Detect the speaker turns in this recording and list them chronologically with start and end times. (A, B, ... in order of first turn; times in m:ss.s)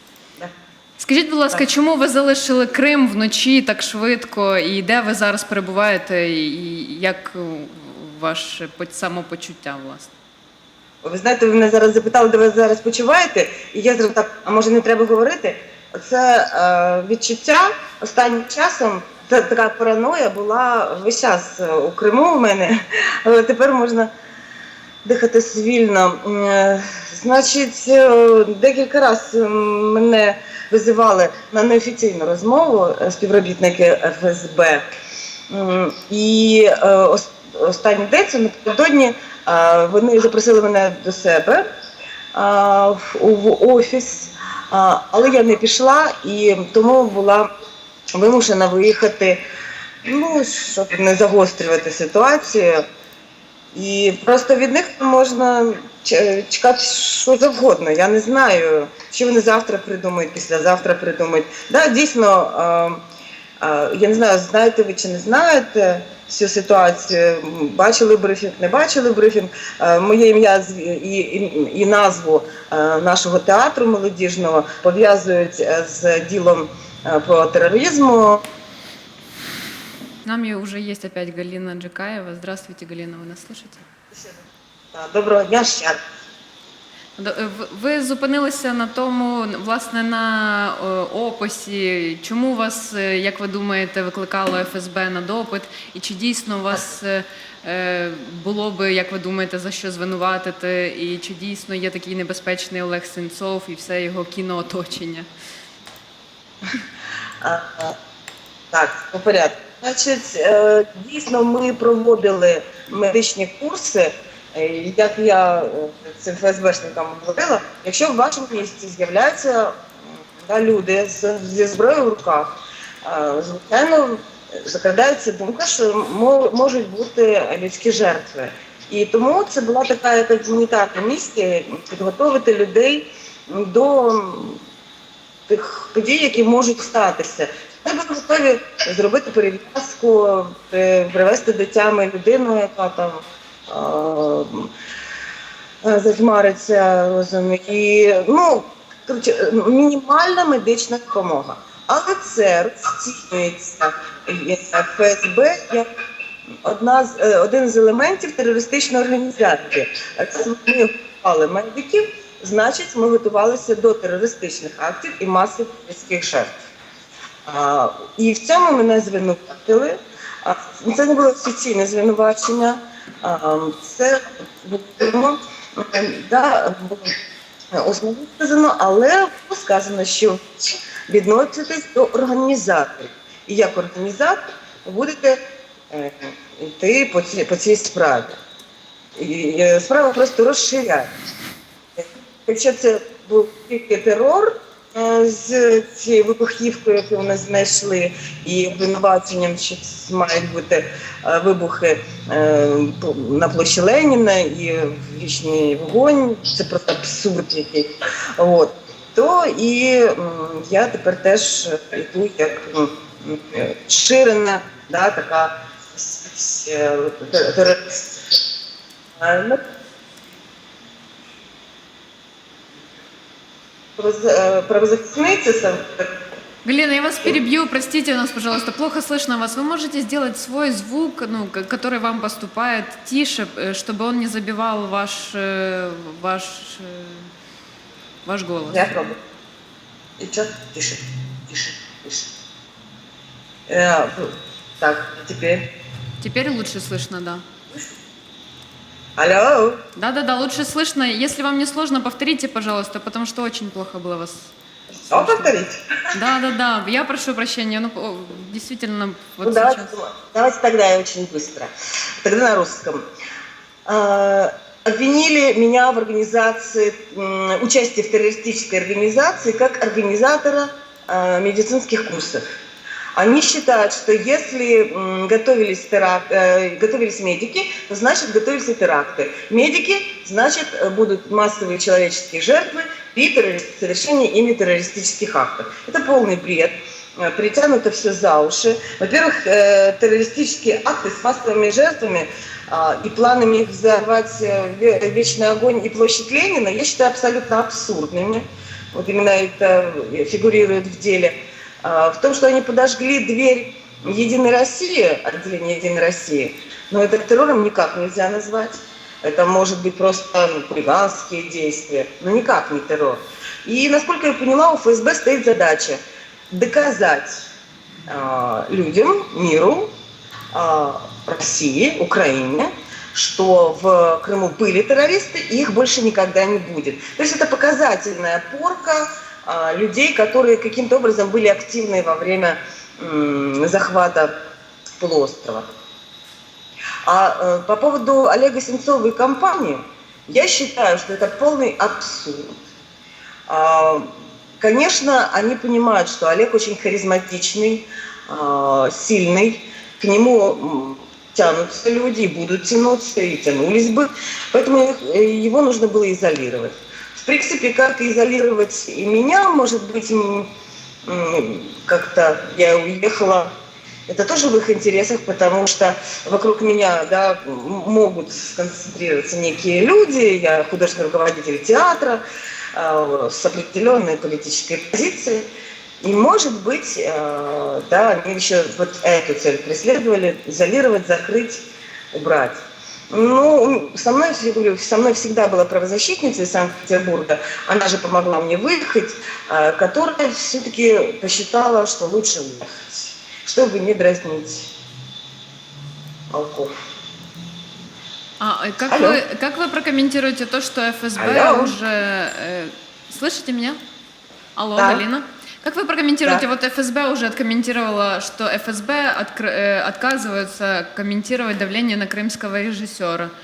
0:01.0-0:10.1 A
0:11.0-0:24.1 B
0:25.0-0:34.8 B
0:35.5-0:41.6 B
0:42.3-0:47.5 B
0:48.2-0:49.4 B
0:50.0-0:52.8 B
0:53.7-1:03.0 B
1:03.6-1:18.4 B
1:20.2-1:23.8 A
1:24.1-1:24.4 B
1:24.9-1:26.0 B
1:27.2-1:45.3 A
1:47.4-1:48.0 B
1:48.7-1:59.8 B
2:00.4-2:14.6 B
2:15.5-2:24.7 B
2:25.8-2:35.9 B
2:36.6-2:46.6 B
2:47.4-2:57.1 B
2:57.7-3:08.4 B
3:09.2-3:11.1 B
3:12.0-3:38.3 B
3:39.2-3:39.6 B
3:44.0-3:46.1 B
3:46.6-3:57.3 A
3:58.2-3:59.1 A
3:58.7-3:59.2 B
4:00.2-4:02.3 B
4:03.7-4:05.6 B
4:06.2-4:07.4 A
4:09.2-4:09.8 B
4:10.0-4:15.5 A
4:15.1-4:15.8 B
4:16.1-4:19.9 A
4:19.4-4:23.0 B
4:23.8-4:32.4 B
4:33.1-5:17.4 B
5:18.1-5:19.9 B
5:20.5-5:34.3 B
5:35.0-5:35.7 B
5:37.0-5:42.6 B
5:43.5-6:00.5 B
6:01.0-6:03.5 B
6:04.1-6:12.2 B
6:12.7-6:15.5 B
6:16.0-6:22.6 B
6:23.1-6:34.7 B
6:36.3-6:36.7 B
6:38.4-6:43.8 A
6:38.9-6:39.2 B
6:41.2-6:41.7 B
6:44.5-6:53.3 A
6:44.8-6:45.0 B